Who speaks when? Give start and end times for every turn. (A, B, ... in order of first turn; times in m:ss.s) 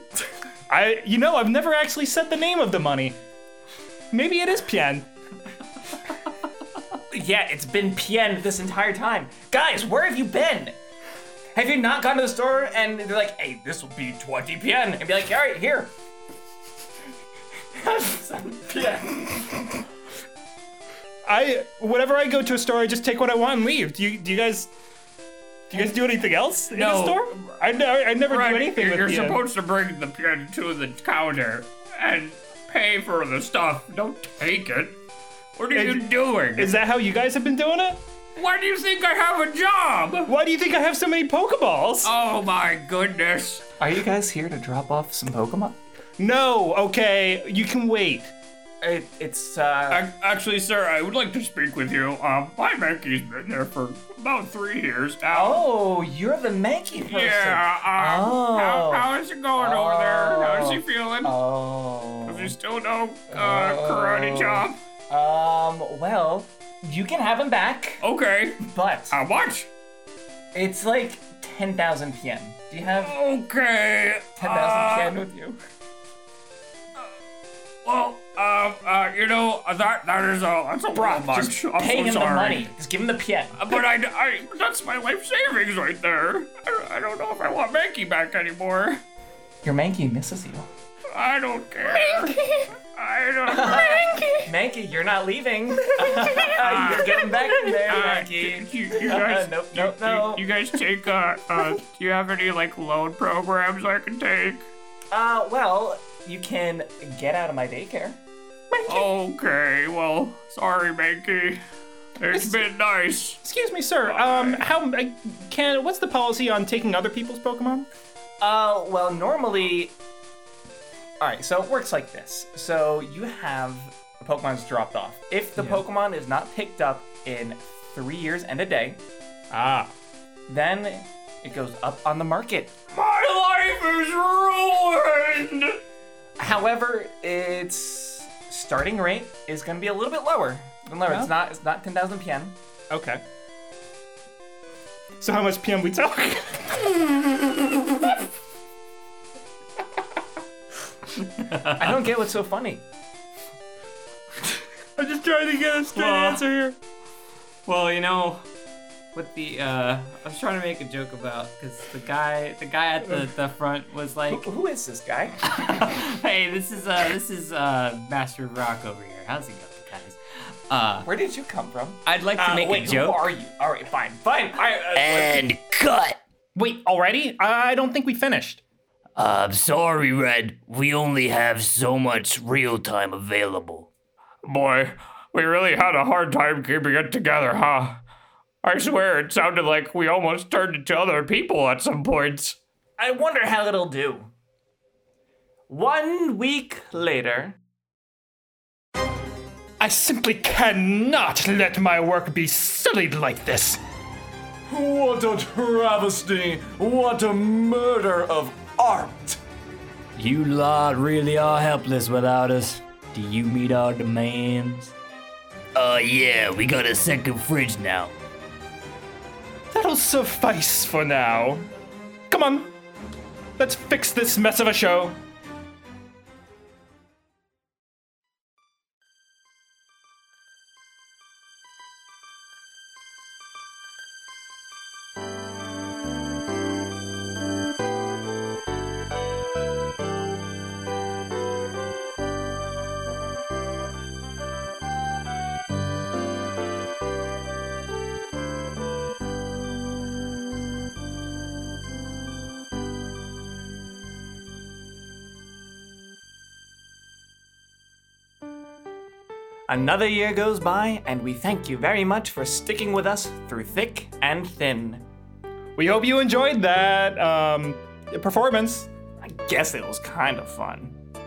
0:00.7-0:03.2 A
0:04.1-0:05.1 A
0:07.1-0:10.8 B
0:11.5-0:15.9 B
0:17.7-0:19.6 B
0:21.2-0:24.7 A
0:25.7-0:29.4 A
0:26.7-0:27.6 C
0:28.2-0:35.0 C
0:35.6-0:36.8 C
0:35.7-0:38.0 A
0:38.4-0:40.3 C
0:40.2-0:42.1 A
0:42.0-0:43.6 C
0:43.8-0:45.8 B
0:46.2-0:48.3 A
0:48.8-0:50.0 B
0:49.9-0:55.7 C
0:55.3-1:02.6 B
0:57.0-1:01.4 C
1:02.2-1:04.8 C
1:03.3-1:08.0 B
1:08.0-1:09.7 C
1:08.6-1:09.2 B
1:10.5-1:13.2 B
1:12.9-1:15.2 C
1:14.4-1:15.6 B
1:17.8-1:22.7 C
1:20.9-1:23.8 B
1:23.6-1:29.0 C
1:29.6-1:30.7 B
1:31.1-1:34.4 C
1:33.5-1:40.4 B
1:36.2-1:44.7 C
1:45.1-1:48.2 B
1:48.7-1:49.0 A
1:48.9-1:51.6 C
1:52.2-1:53.4 C
1:53.4-1:57.9 A
1:54.0-1:54.6 C
1:58.4-2:00.0 B
2:01.2-2:09.0 B
2:09.5-2:09.9 A
2:10.5-2:12.8 B
2:12.9-2:15.8 C
2:16.4-2:22.6 B
2:21.0-2:21.3 A
2:22.9-2:23.2 A
2:25.2-2:27.3 A
2:31.8-2:32.8 B
2:35.0-2:36.8 A
2:36.0-2:36.4 C
2:37.7-2:38.4 D
2:37.7-2:38.2 C
2:39.1-2:44.4 D
2:41.4-2:42.0 C
2:43.1-2:44.3 C
2:44.3-2:45.4 B
2:45.6-2:50.2 D
2:50.7-2:51.0 D
2:51.0-2:55.4 B
2:52.0-2:53.2 D
2:54.9-2:56.2 E
2:56.5-2:58.6 A
2:59.2-3:03.9 E
3:04.4-3:08.0 C
3:08.6-3:12.6 C
3:13.0-3:14.3 B
3:15.7-3:17.6 B
3:19.8-3:23.8 A
3:24.7-3:29.4 B
3:30.2-3:34.9 E
3:35.7-3:38.1 E
3:39.7-3:41.7 A
3:42.3-3:42.7 A
3:43.6-3:45.2 A
4:19.7-4:25.0 B
4:25.8-4:28.9 A
4:29.2-4:31.0 B